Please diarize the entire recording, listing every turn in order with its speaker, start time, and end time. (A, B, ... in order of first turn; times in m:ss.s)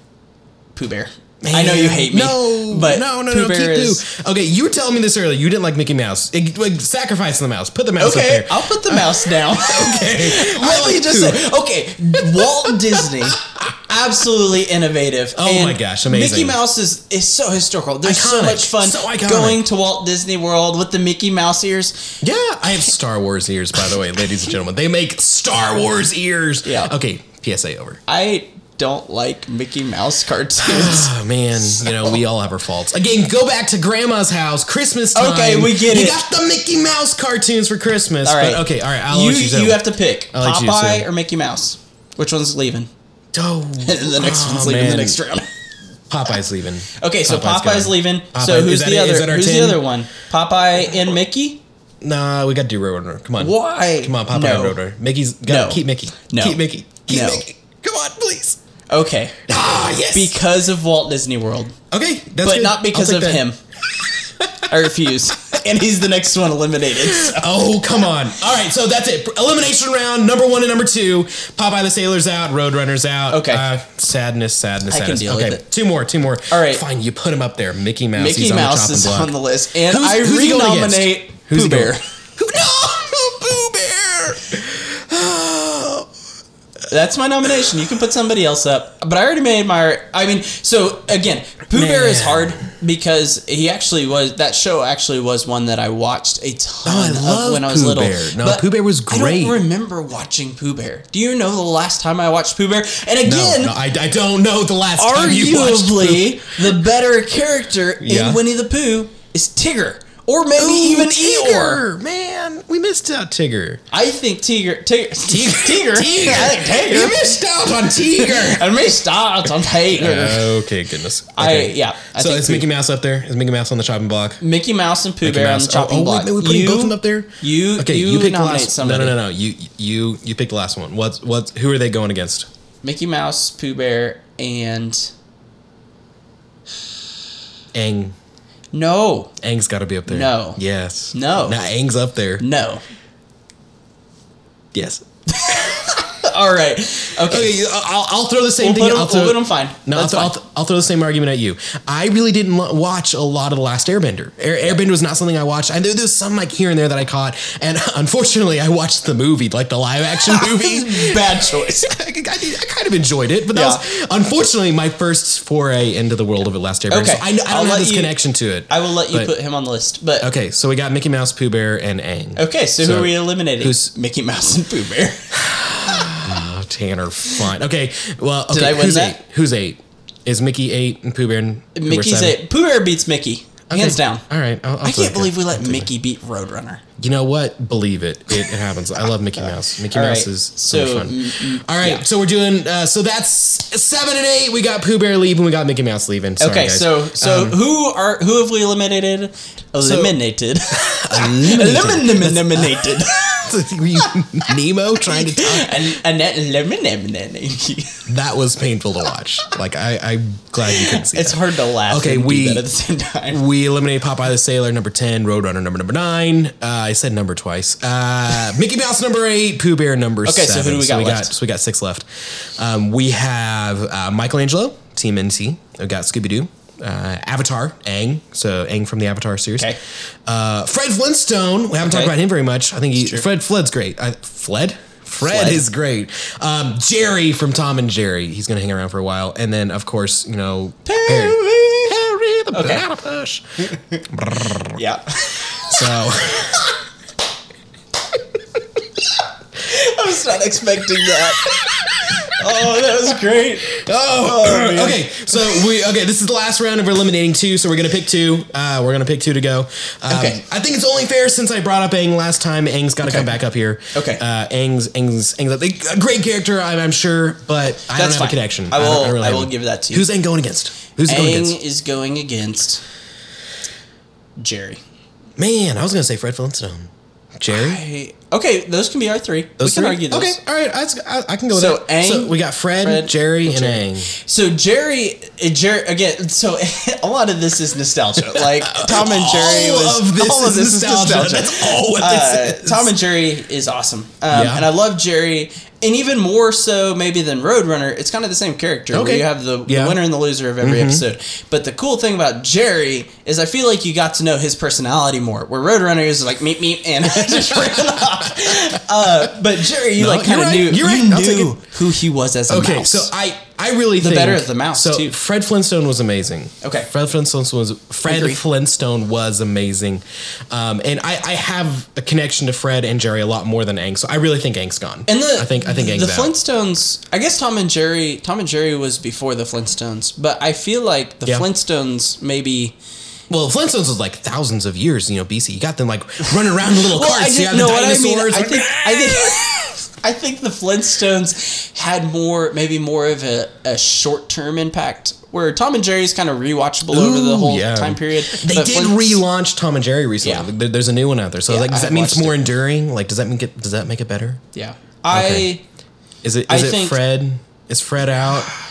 0:00.8-0:04.0 A
0:01.4-0:11.5 B
0:08.0-0:22.1 A
0:12.2-0:13.7 B
0:15.3-0:16.6 B
0:18.0-0:19.6 B
0:22.2-0:28.0 B
0:26.6-0:26.9 A
0:28.1-0:31.1 A
0:30.6-0:41.1 B
0:31.7-0:32.2 A
0:35.1-0:36.2 A
0:38.2-0:42.9 A
0:43.3-0:45.2 B
0:43.8-0:45.5 A
0:46.1-0:49.8 B
0:47.0-0:51.6 A
0:52.0-0:58.6 B
0:53.4-0:54.8 A
0:55.5-0:57.4 A
0:58.9-0:59.5 A
0:59.5-1:00.4 B
1:00.1-1:01.8 A
1:01.9-1:03.4 B
1:02.4-1:03.6 A
1:04.0-1:04.7 B
1:04.7-1:07.7 A
1:07.0-1:19.3 B
1:13.3-1:13.6 A
1:14.9-1:15.6 A
1:16.5-1:16.8 A
1:18.2-1:22.0 A
1:19.8-1:26.1 B
1:26.9-1:43.7 A
1:31.7-1:32.6 B
1:36.8-1:39.6 B
1:43.2-1:46.8 B
1:45.0-1:51.8 A
1:48.0-1:48.4 B
1:50.6-1:53.8 B
1:53.9-1:57.4 A
1:55.3-1:58.7 B
1:57.9-2:00.7 A
1:59.9-2:04.4 B
2:01.3-2:02.7 A
2:04.4-2:09.2 A
2:05.2-2:12.5 B
2:12.8-2:15.1 A
2:17.7-2:18.1 B
2:18.7-2:19.3 A
2:19.4-2:22.4 B
2:20.1-2:20.6 A
2:21.1-2:21.6 A
2:22.4-2:22.8 A
2:24.7-2:25.8 B
2:25.3-2:27.6 A
2:27.2-2:49.3 B
2:28.6-2:30.3 A
2:40.2-2:41.9 A
2:43.5-2:43.8 A
2:46.9-2:48.1 A
2:48.7-2:50.3 A
2:50.2-2:53.9 B
2:52.4-2:56.3 A
2:55.3-3:02.4 B
2:58.5-2:59.2 A
3:01.7-3:04.2 A
3:03.7-3:05.9 B
3:04.8-3:06.8 A
3:07.0-3:17.6 B
3:09.9-3:12.0 A
3:16.4-3:23.5 A
3:19.8-3:20.2 B
3:20.7-3:26.0 B
3:25.0-3:28.0 A
3:28.1-3:32.6 B
3:30.6-3:33.4 A
3:33.3-3:49.7 B
3:40.2-3:41.3 A
3:50.3-4:04.8 B
3:51.8-3:52.1 A
3:53.0-3:53.2 A
3:55.2-3:55.6 A
4:00.8-4:02.0 A
4:02.5-4:02.8 A
4:03.7-4:04.0 A
4:04.7-4:05.8 A
4:05.5-4:06.7 B
4:09.1-4:15.6 A
4:11.4-4:12.8 B
4:13.7-4:31.6 B
4:20.1-4:20.4 A
4:23.0-4:23.3 A
4:23.9-4:24.2 A
4:27.9-4:30.1 A
4:31.0-4:32.8 A
4:34.4-4:34.8 A
4:35.4-4:37.8 B
4:37.5-4:40.4 A
4:39.6-4:44.1 B
4:41.5-5:13.1 A
4:48.3-4:52.9 B
4:54.3-4:54.6 B
4:58.9-5:00.0 B
5:00.6-5:01.0 B
5:07.1-5:09.3 B
5:09.9-5:11.6 B
5:12.5-5:26.3 B
5:14.0-5:15.1 A
5:16.6-5:16.9 A
5:18.0-5:18.4 A
5:25.1-5:32.8 A
5:33.3-5:39.6 B
5:36.6-5:49.2 A
5:46.9-5:54.4 B
5:50.2-5:50.5 A
5:51.5-5:52.4 A
5:54.5-5:55.6 A
5:55.1-5:55.5 B
5:56.2-5:58.5 B
5:56.5-5:57.0 A